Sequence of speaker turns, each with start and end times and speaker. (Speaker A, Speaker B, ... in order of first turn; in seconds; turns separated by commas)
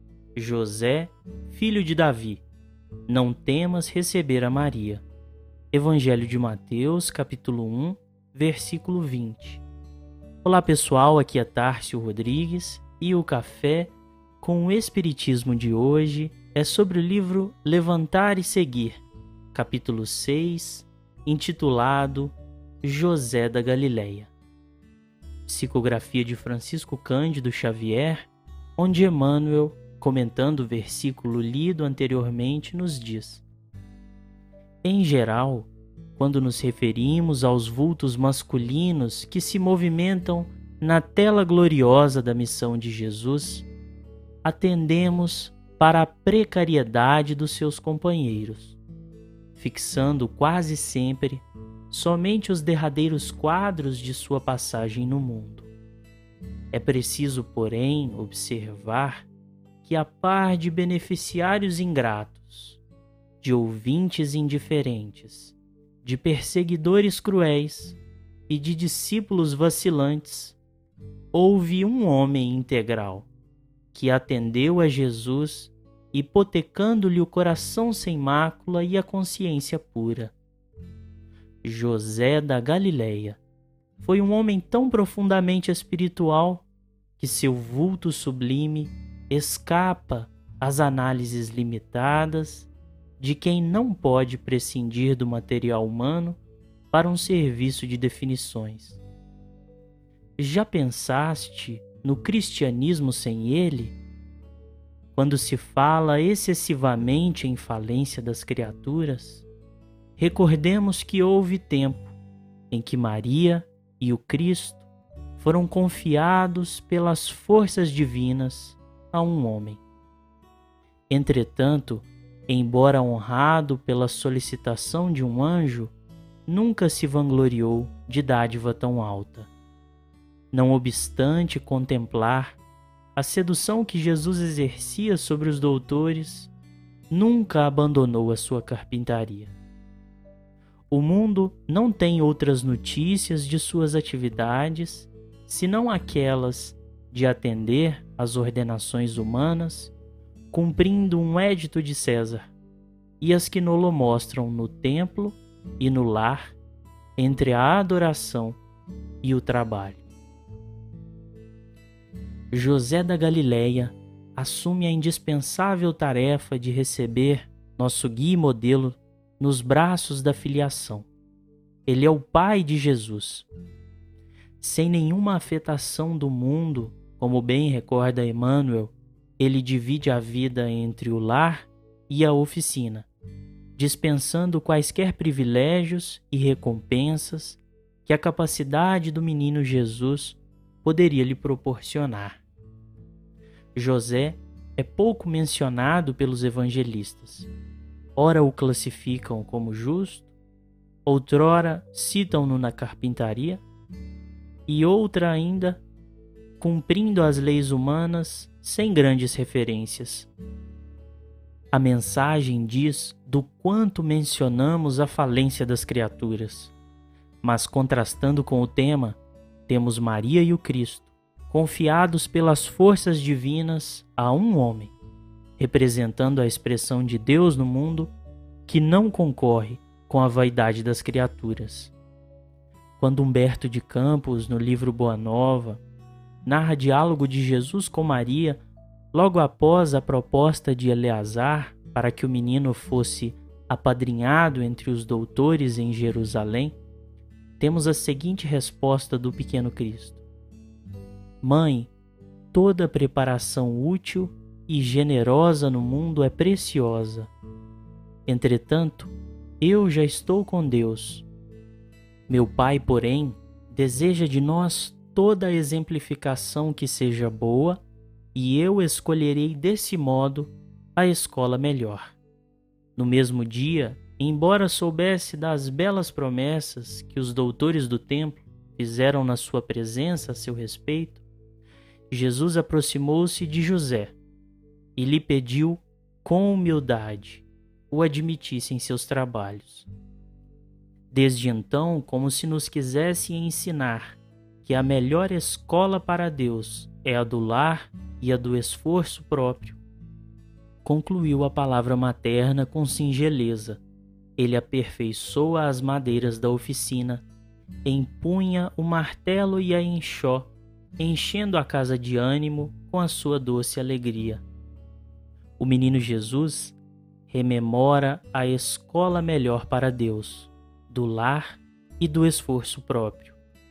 Speaker A: 0.3-2.4, Speaker A: 3.1-5.0, Speaker A: 5.7-9.6, Speaker A: 10.4-19.0, Speaker A: 19.5-24.3, Speaker A: 25.5-33.4, Speaker A: 34.8-43.7, Speaker A: 44.4-48.8, Speaker A: 49.5-55.7, Speaker A: 56.7-59.3, Speaker A: 59.8-62.8, Speaker A: 63.4-70.6, Speaker A: 71.3-73.3, Speaker A: 73.9-80.3, Speaker A: 81.6-83.4, Speaker A: 84.0-86.7, Speaker A: 87.2-96.4, Speaker A: 96.9-99.0, Speaker A: 100.4-104.0, Speaker A: 105.1-109.5, Speaker A: 110.2-112.1, Speaker A: 112.7-119.8, Speaker A: 121.1-125.9, Speaker A: 126.5-129.5, Speaker A: 130.5-132.6, Speaker A: 133.2-136.5, Speaker A: 137.1-139.5, Speaker A: 140.9-149.9, Speaker A: 150.5-152.5, Speaker A: 153.2-156.5, Speaker A: 157.2-158.6, Speaker A: 159.2-160.0, Speaker A: 162.5-171.1, Speaker A: 171.9-173.5, Speaker A: 174.6-183.1, Speaker A: 183.8-192.4, Speaker A: 193.7-197.5, Speaker A: 198.2-200.3, Speaker A: 201.1-203.6, Speaker A: 204.7-205.8, Speaker A: 206.6-210.3, Speaker A: 211.7-216.7, Speaker A: 217.4-224.9, Speaker A: 225.6-228.1, Speaker A: 228.7-231.9, Speaker A: 233.0-235.8, Speaker A: 236.4-238.6, Speaker A: 239.1-246.8, Speaker A: 247.6-250.2, Speaker A: 251.4-251.9, Speaker A: 252.5-257.3, Speaker A: 258.3-261.3, Speaker A: 262.3-267.8, Speaker A: 268.3-272.2, Speaker A: 272.9-281.2, Speaker A: 282.1-284.1, Speaker A: 284.9-289.9, Speaker A: 291.1-299.8, Speaker A: 300.8-303.8, Speaker A: 304.4-307.2, Speaker A: 307.8-314.4, Speaker A: 315.6-316.8, Speaker A: 317.3-323.4